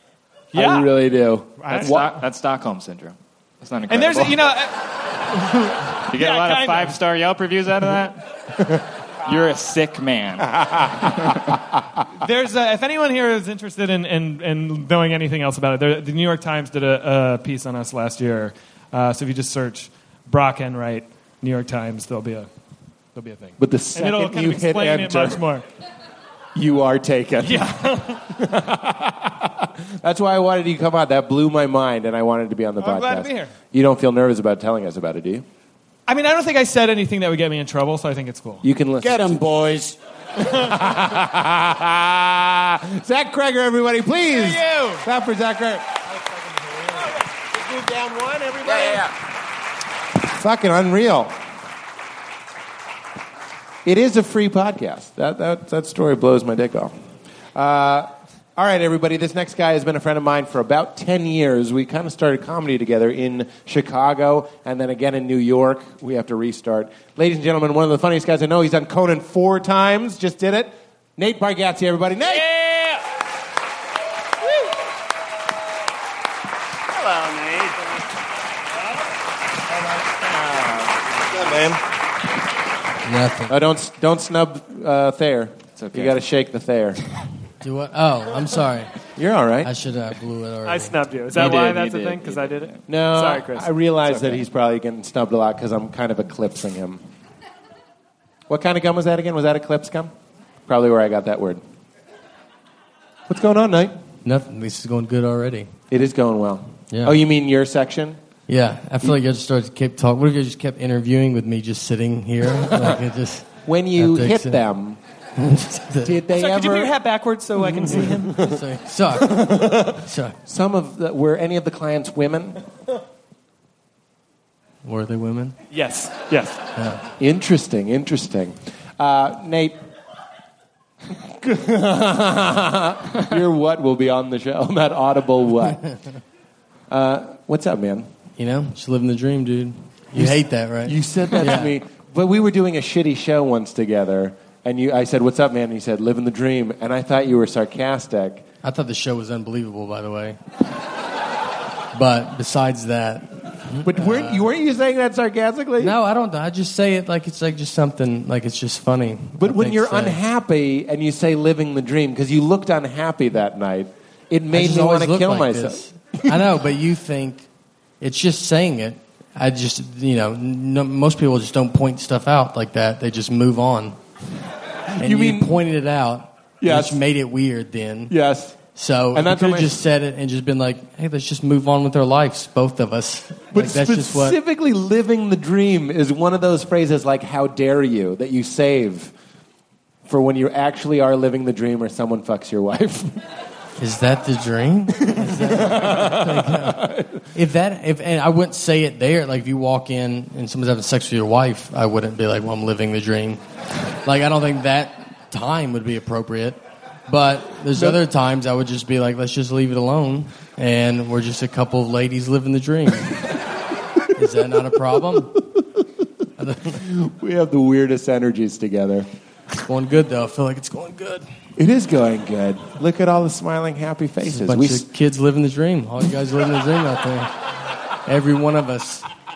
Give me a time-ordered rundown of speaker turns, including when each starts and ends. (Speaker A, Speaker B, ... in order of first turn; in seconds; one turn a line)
Speaker A: 0.5-0.9
Speaker B: 0.5-2.1
Speaker A: 1.6-2.1
Speaker C: 1.7-4.5
Speaker A: 3.9-7.0
Speaker C: 6.1-8.2
Speaker C: 9.2-11.4
Speaker A: 12.2-22.5
Speaker A: 23.1-25.6
Speaker B: 23.6-25.4
Speaker B: 26.5-27.7
Speaker A: 27.4-28.2
Speaker B: 28.4-35.4
Speaker A: 32.8-33.5
Speaker A: 36.1-38.6
Speaker B: 38.6-39.4
Speaker D: 39.0-40.0
Speaker B: 40.5-46.0
Speaker A: 44.3-45.0
Speaker B: 46.8-49.0
Speaker D: 48.6-49.1
Speaker B: 50.3-51.3
Speaker B: 53.8-56.9
Speaker B: 57.5-72.5
Speaker D: 72.3-73.0
Speaker D: 76.9-77.8
Speaker C: 80.2-80.9
Speaker B: 81.3-81.8
Speaker E: 83.0-83.5
Speaker B: 83.5-87.0
Speaker C: 85.8-86.2
Speaker E: 87.6-89.0
Speaker B: 89.1-89.7
Speaker E: 89.6-91.0
Speaker A: 90.6-93.7
Speaker C: 91.3-92.8
Speaker B: 92.9-97.0
Speaker B: 98.5-100.1
Speaker B: 100.7-101.6
Speaker B: 103.3-103.9
Speaker E: 104.2-105.7
Speaker B: 105.9-108.2
Speaker E: 106.9-107.2
Speaker E: 108.5-114.6
Speaker B: 113.6-115.0
Speaker E: 115.4-116.2
Speaker B: 116.0-116.9
Speaker A: 116.3-118.4
Speaker B: 117.6-118.6
Speaker E: 117.9-120.4
Speaker B: 119.2-122.6
Speaker E: 124.8-125.6
Speaker A: 125.7-126.6
Speaker E: 126.8-127.0
Speaker B: 127.2-129.8
Speaker B: 131.2-135.8
Speaker B: 136.9-138.1
Speaker E: 138.4-141.8
Speaker B: 140.1-148.4
Speaker E: 148.6-150.4
Speaker E: 151.9-154.5
Speaker B: 153.8-155.9
Speaker E: 155.8-160.2
Speaker B: 159.4-166.4
Speaker E: 164.5-167.4
Speaker E: 168.0-174.0
Speaker B: 174.9-175.6
Speaker E: 175.0-178.1
Speaker B: 176.6-177.0
Speaker B: 178.1-178.6
Speaker E: 178.7-184.4
Speaker B: 179.1-179.8
Speaker B: 183.5-189.1
Speaker B: 190.1-193.2
Speaker E: 193.8-203.4
Speaker B: 195.1-197.2
Speaker E: 204.0-213.3
Speaker B: 207.7-208.0
Speaker E: 214.1-215.4
Speaker E: 216.4-216.8
Speaker B: 216.7-219.1
Speaker E: 219.6-221.3
Speaker B: 221.6-224.9
Speaker E: 224.2-227.3
Speaker E: 228.1-229.1